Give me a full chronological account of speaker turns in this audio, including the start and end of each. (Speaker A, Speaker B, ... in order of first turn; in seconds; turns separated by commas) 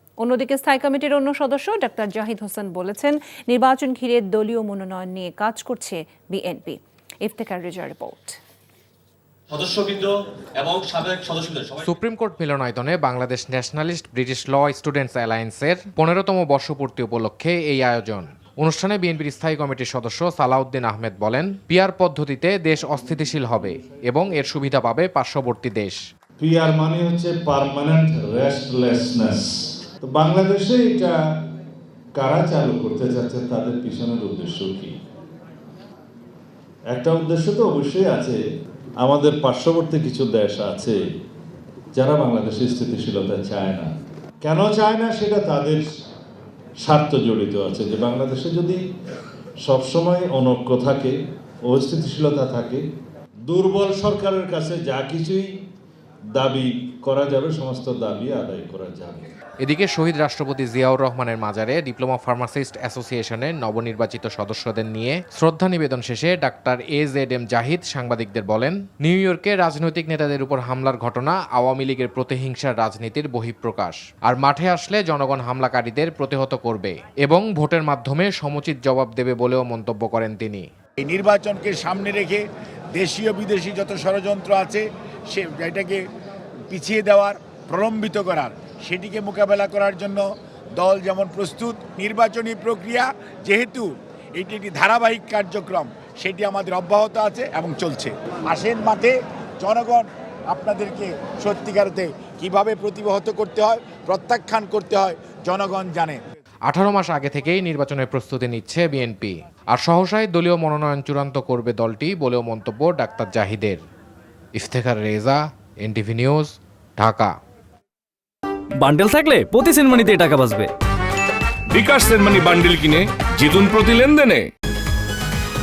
Speaker A: 0.2-8.4, Speaker B: 9.5-11.9, Speaker C: 11.8-26.0, Speaker D: 26.4-31.2, Speaker D: 32.2-35.0, Speaker D: 36.9-38.4, Speaker D: 39.0-41.0, Speaker D: 42.0-43.9, Speaker D: 44.4-45.9, Speaker D: 46.8-48.8, Speaker D: 49.6-51.1, Speaker D: 51.7-52.8, Speaker D: 53.5-55.5, Speaker D: 56.4-59.3, Speaker C: 59.6-80.6, Speaker E: 81.0-82.4, Speaker E: 83.0-86.0, Speaker E: 86.7-90.2, Speaker E: 90.8-106.2, Speaker C: 106.7-113.8, Speaker C: 114.6-117.3, Speaker F: 118.8-120.7, Speaker G: 121.7-124.5